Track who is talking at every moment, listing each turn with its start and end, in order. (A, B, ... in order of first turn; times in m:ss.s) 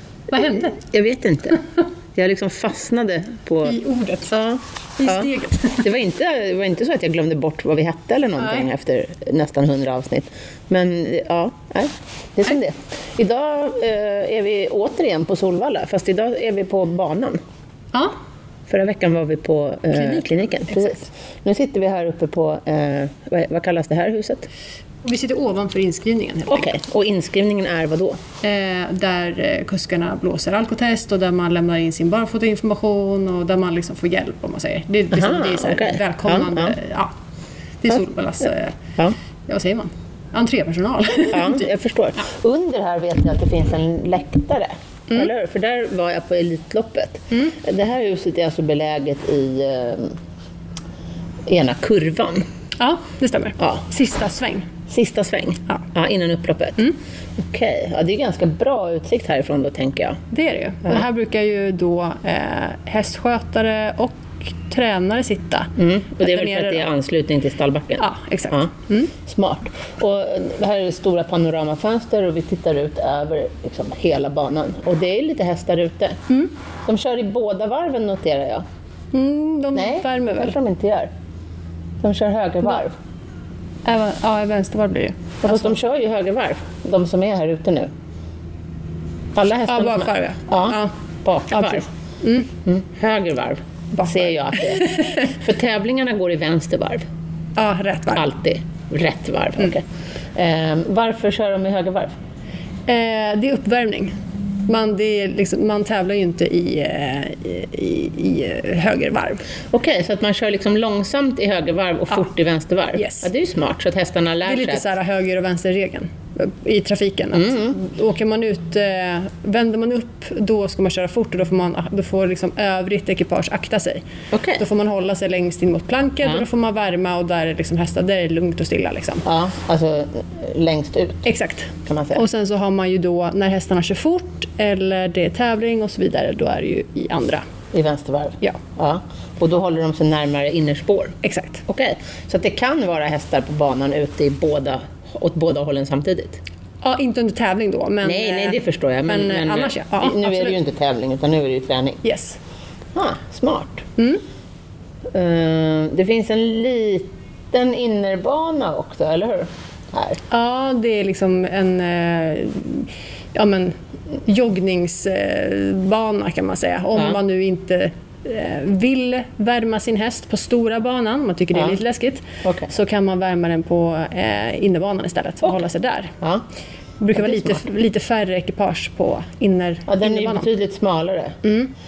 0:00.3-0:00.8 A
0:00.8-0:01.6 B
0:02.2-0:17.4 B
0:03.6-0:04.3 A
0:05.0-0:05.9 A
0:08.4-0:08.7 A
0:18.7-0:24.5 B
0:20.0-0:21.1 A
0:25.0-0:26.7 A
0:26.5-0:28.2 B
0:28.4-0:37.1 A
0:35.1-0:36.8 B
0:37.8-0:38.8 A
0:39.5-0:41.6 A
0:41.3-0:50.2 B
0:51.5-0:52.5 B
0:52.8-0:54.7 A
0:54.9-1:00.2 B
1:00.3-1:06.9 A
1:05.8-1:08.7 B
1:08.0-1:09.1 A
1:09.2-1:16.2 B
1:16.9-1:18.6 B
1:19.1-1:20.6 A
1:19.7-1:21.1 B
1:22.0-1:23.0 B
1:23.8-1:25.7 A
1:25.4-1:27.9 B
1:29.4-1:31.9 B
1:29.7-1:30.9 A
1:31.5-1:32.5 A
1:32.6-1:37.0 B
1:34.0-1:35.3 A
1:37.6-1:38.3 A
1:38.2-1:42.2 B
1:42.9-1:44.2 A
1:44.7-1:49.5 A
1:49.7-1:54.9 B
1:53.0-1:53.3 A
1:54.5-2:04.0 A
1:57.3-1:57.8 B
2:04.3-2:04.6 B
2:04.6-2:09.2 A
2:09.2-2:11.3 B
2:11.3-2:17.4 A
2:11.8-2:12.2 B
2:17.7-2:21.2 B
2:21.2-2:21.6 A
2:21.7-2:26.4 B
2:26.8-2:30.6 A
2:28.0-2:32.0 B
2:32.0-2:32.4 A
2:33.0-2:33.8 B
2:34.0-2:34.2 A
2:35.1-2:40.2 B
2:40.3-2:56.2 A
2:52.4-2:52.7 B
2:57.0-3:00.5 A
2:57.2-2:57.6 B
2:59.9-3:01.4 B
3:01.4-3:01.7 A